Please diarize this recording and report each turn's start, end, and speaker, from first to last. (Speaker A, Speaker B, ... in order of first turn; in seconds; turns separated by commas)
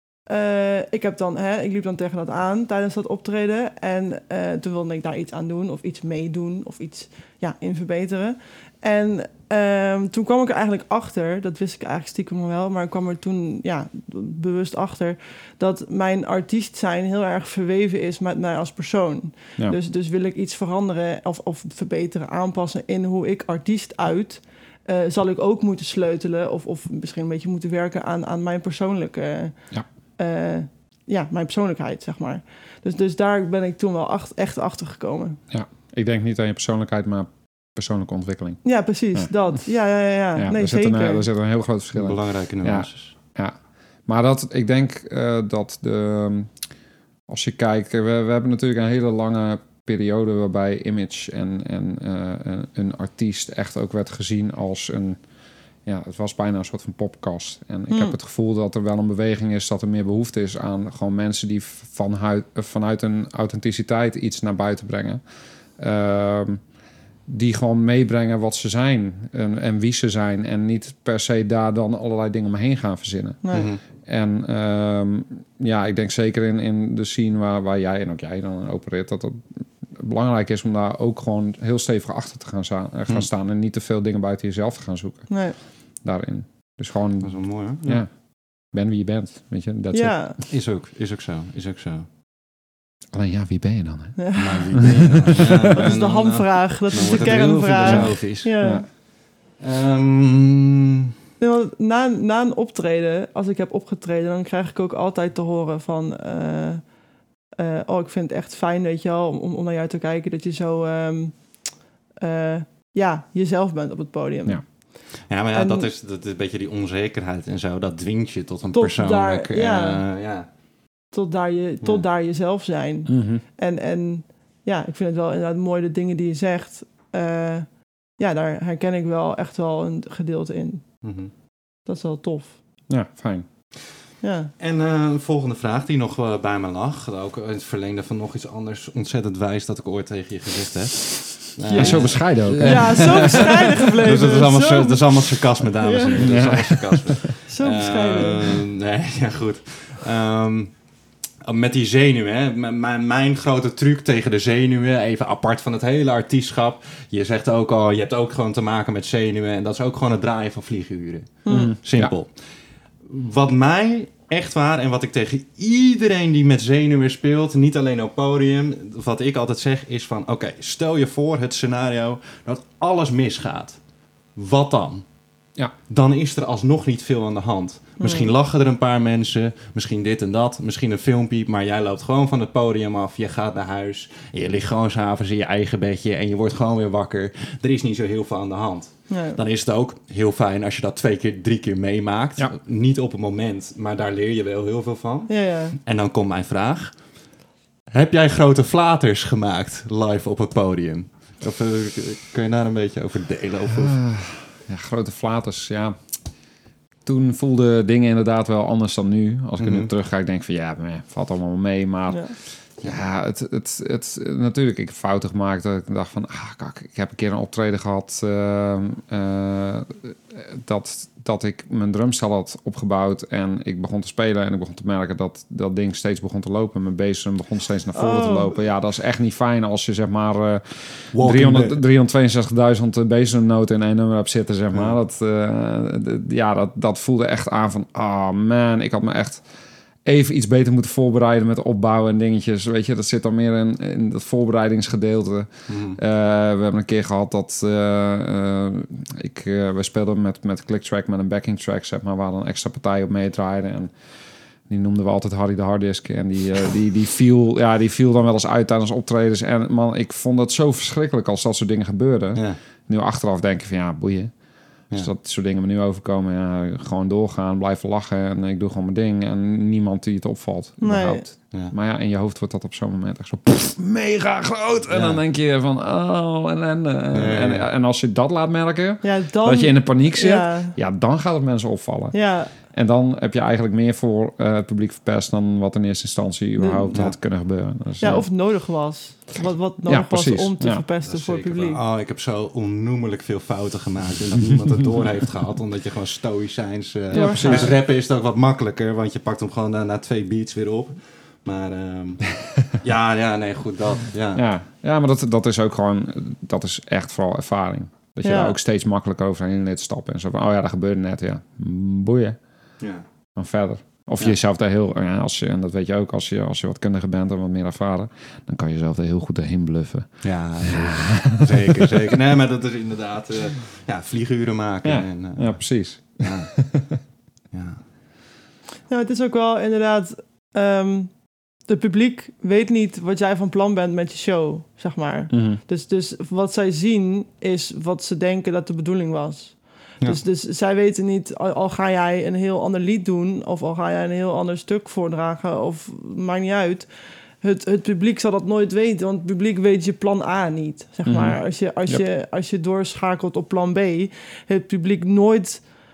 Speaker A: 0.2-35.4, Speaker B: 35.5-39.6, Speaker A: 38.6-41.2, Speaker B: 40.3-46.7, Speaker C: 41.9-43.1, Speaker B: 47.3-55.2, Speaker B: 55.8-66.7, Speaker A: 57.9-58.1, Speaker B: 67.3-90.4, Speaker A: 73.4-73.7, Speaker C: 73.5-73.8, Speaker A: 85.3-85.6, Speaker C: 87.2-88.0, Speaker A: 89.9-90.4, Speaker C: 90.5-92.0, Speaker B: 93.1-95.8, Speaker A: 94.2-98.9, Speaker C: 94.3-98.5, Speaker B: 97.1-98.9, Speaker C: 99.6-100.8, Speaker A: 101.4-106.9, Speaker A: 107.6-115.9, Speaker C: 115.2-120.5, Speaker A: 118.7-120.0, Speaker A: 121.1-131.1, Speaker B: 123.1-123.4, Speaker C: 131.0-131.3, Speaker A: 131.8-132.6, Speaker B: 132.9-133.4, Speaker A: 134.2-134.5, Speaker C: 134.6-175.2, Speaker A: 141.7-146.5, Speaker B: 141.7-143.6, Speaker B: 146.2-147.3, Speaker A: 147.5-148.6, Speaker A: 161.4-161.7, Speaker B: 161.5-162.1, Speaker C: 175.9-197.3, Speaker A: 178.0-178.3, Speaker A: 189.1-189.4, Speaker A: 195.3-195.8, Speaker C: 197.9-204.0, Speaker B: 203.7-206.3, Speaker B: 207.0-239.5, Speaker C: 209.6-209.9, Speaker A: 212.1-212.4, Speaker A: 227.9-228.6, Speaker C: 231.1-231.8, Speaker B: 240.0-288.5, Speaker C: 245.7-246.0, Speaker A: 270.8-271.3, Speaker C: 274.9-275.2, Speaker C: 277.1-277.7, Speaker A: 279.0-280.8, Speaker A: 282.1-282.5, Speaker A: 286.6-287.1, Speaker C: 286.9-287.2, Speaker A: 288.0-291.8, Speaker B: 289.8-290.8, Speaker C: 291.0-304.4, Speaker B: 297.1-297.8, Speaker A: 297.1-297.8, Speaker B: 304.3-312.8, Speaker A: 308.2-308.6, Speaker C: 312.8-313.0, Speaker B: 313.3-321.9, Speaker C: 320.2-326.8, Speaker B: 324.8-327.0, Speaker C: 327.5-327.8, Speaker A: 328.9-355.7, Speaker B: 335.3-335.6, Speaker B: 351.0-352.0